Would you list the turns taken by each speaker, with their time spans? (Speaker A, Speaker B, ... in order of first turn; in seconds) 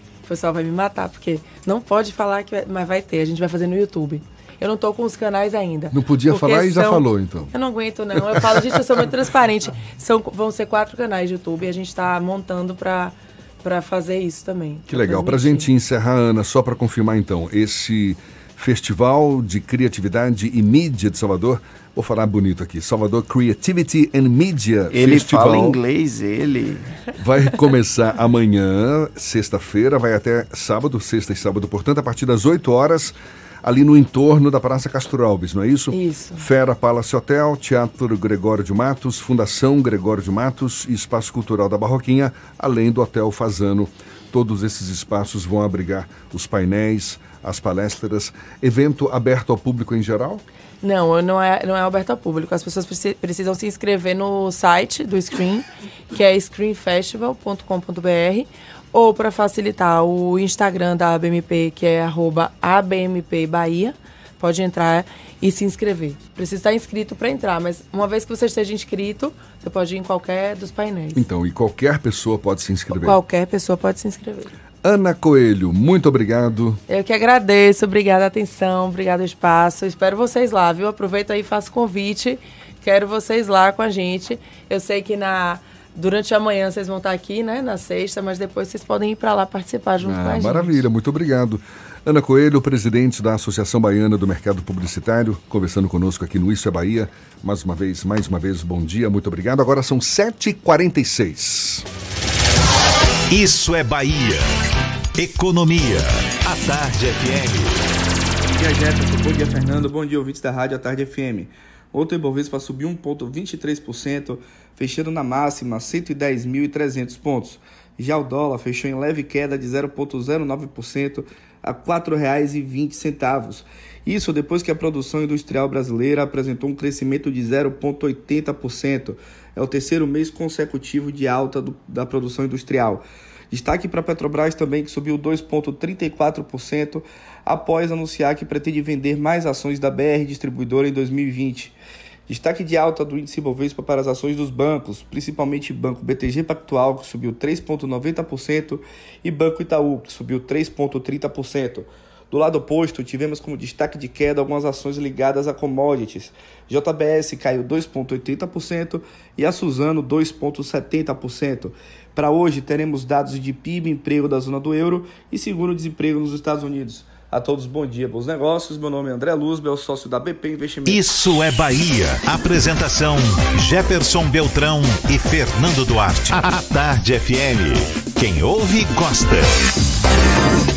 Speaker A: 0.3-15.7, 35.9-36.4, 50.8-71.2, 72.9-74.5, 76.9-90.8
Speaker B: 5.9-7.5, 8.2-8.9, 14.9-25.8, 27.2-50.4, 71.1-73.2, 74.8-76.8, 90.0-101.8
Speaker C: 24.9-26.9
Speaker D: 103.3-104.5, 105.2-107.8, 170.9-179.5
Speaker E: 108.6-141.8, 142.3-171.1